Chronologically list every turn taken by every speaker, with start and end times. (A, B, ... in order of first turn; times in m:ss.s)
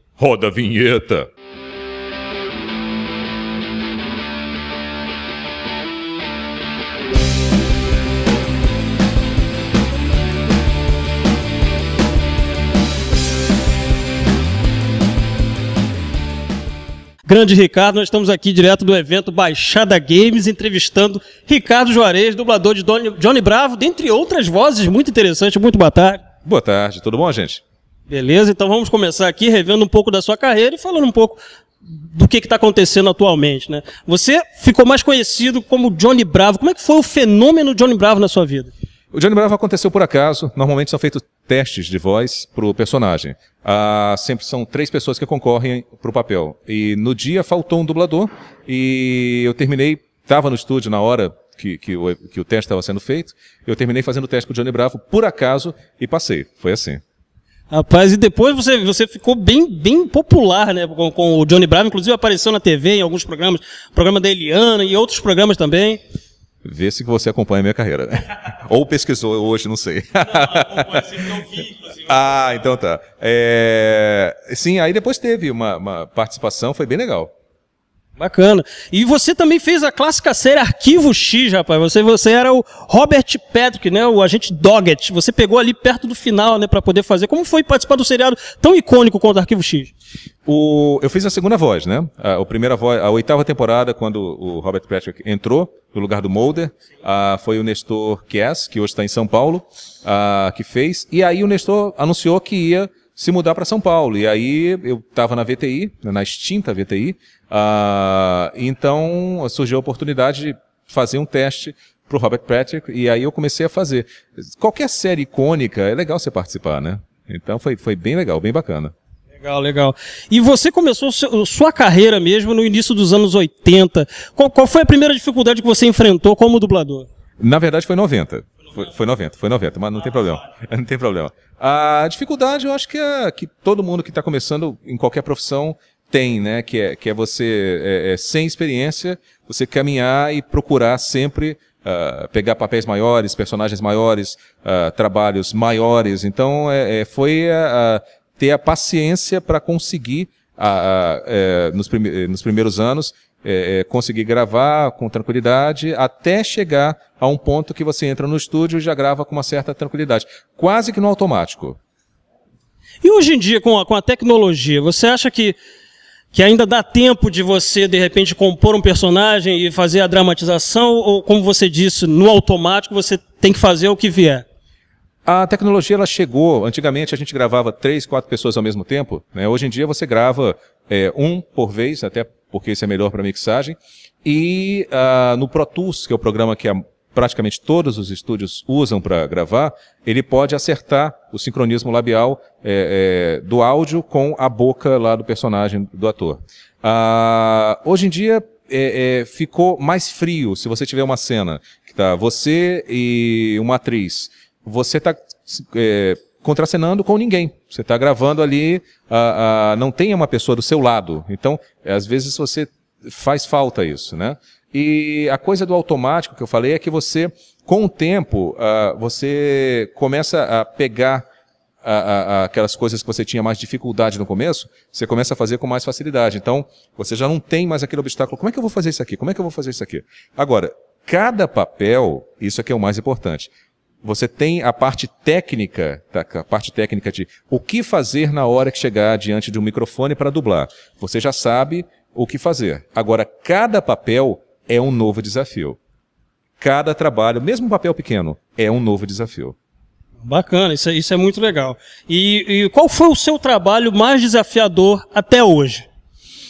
0:00.2-0:01.3 A
0:17.2-0:26.2 B
0:26.4-0:27.6 A
0:28.1-0:31.4 B
0:32.0-0:38.7 B
0:39.1-0:57.0 A
0:57.7-1:06.0 B
1:06.6-1:17.3 A
1:18.2-1:29.9 B
1:30.5-1:58.9 A
1:59.4-2:07.1 B
2:07.4-2:41.8 A
2:43.0-2:45.6 B
2:46.3-2:54.4 B
2:55.3-3:41.2 A
3:41.8-3:53.5 A
3:54.0-4:05.8 A
4:06.6-4:09.6 A
4:10.2-4:15.9 B